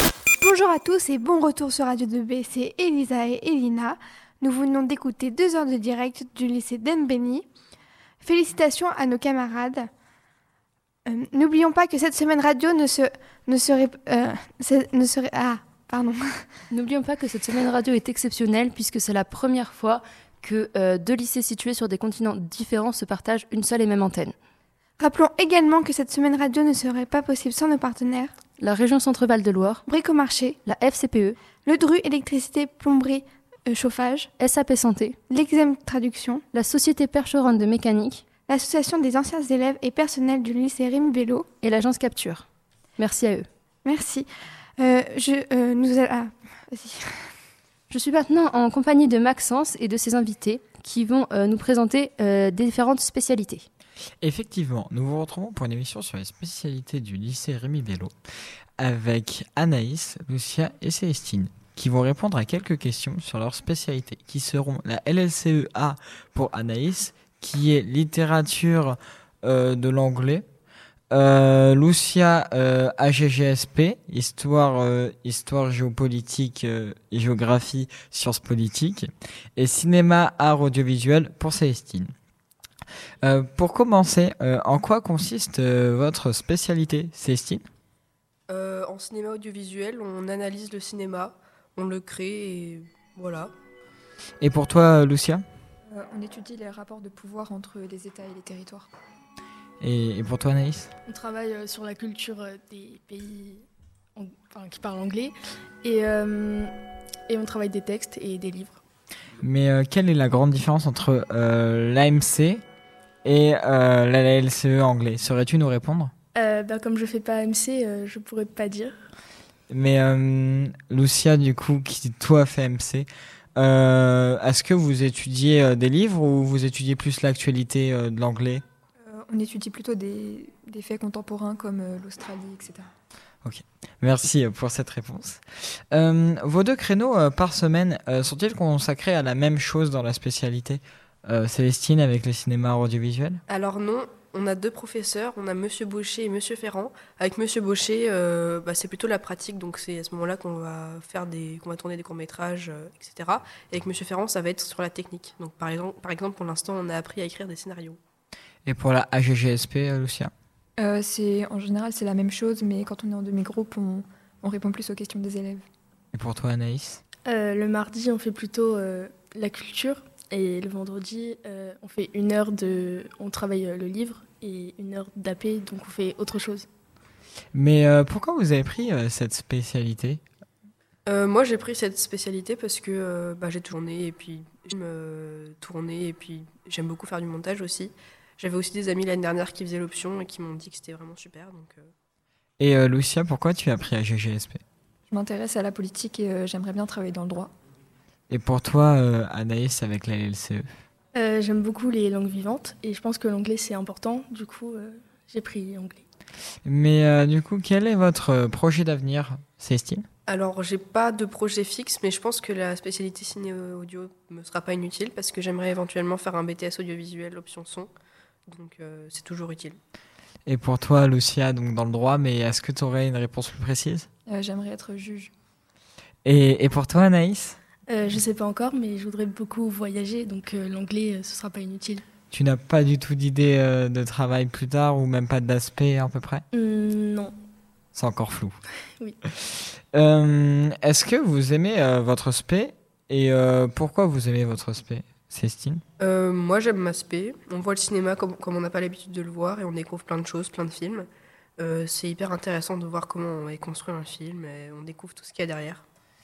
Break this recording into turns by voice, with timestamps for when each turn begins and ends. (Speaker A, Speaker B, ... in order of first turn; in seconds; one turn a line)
Speaker A: 0.4-7.5
Speaker A: 8.2-9.9
Speaker A: 11.1-16.4
Speaker B: 16.7-24.3
Speaker A: 25.0-28.3
Speaker A: 29.9-30.6
Speaker B: 30.7-31.4
Speaker A: 31.6-34.3
Speaker B: 34.4-35.1
Speaker A: 35.3-36.4
Speaker B: 36.5-37.4
Speaker A: 38.5-41.5
Speaker A: 43.9-47.0
Speaker B: 47.9-48.7
Speaker B: 49.6-52.5
Speaker B: 53.0-53.6
Speaker C: 54.2-58.1
Speaker C: 58.8-70.5
Speaker C: 71.1-82.1
Speaker C: 83.2-87.7
Speaker D: 88.5-93.5
Speaker C: 94.4-95.5
Speaker E: 95.9-98.9
Speaker C: 99.8-100.9
Speaker F: 101.1-103.6
Speaker F: 104.2-106.7
Speaker F: 107.3-108.8
Speaker C: 109.4-112.6
Speaker C: 113.2-116.1
Speaker F: 116.3-118.9
Speaker C: 119.7-128.6
Speaker E: 129.1-132.9
Speaker C: 133.4-143.4
Speaker D: 143.5-158.0
Speaker C: 158.7-160.3
Speaker E: 160.8-165.6
Speaker C: 166.1-167.0
Speaker F: 167.3-176.7
Speaker C: 177.5-180.2
Speaker D: 181.1-191.9
Speaker C: 192.6-194.6
Speaker E: 195.1-197.5
Speaker C: 198.3-200.7
Speaker F: 201.2-206.0
Speaker C: 206.7-210.1
Speaker D: 210.3-217.9
Speaker D: 218.5-219.8
Speaker C: 220.5-224.1
Speaker E: 224.3-225.3
Speaker C: 226.2-227.6
Speaker F: 227.9-232.0
Speaker C: 232.3-236.4
Speaker F: 236.5-237.3
Speaker C: 237.9-238.6
Speaker C: 239.5-245.8
Speaker D: 246.0-251.1
Speaker D: 251.6-255.8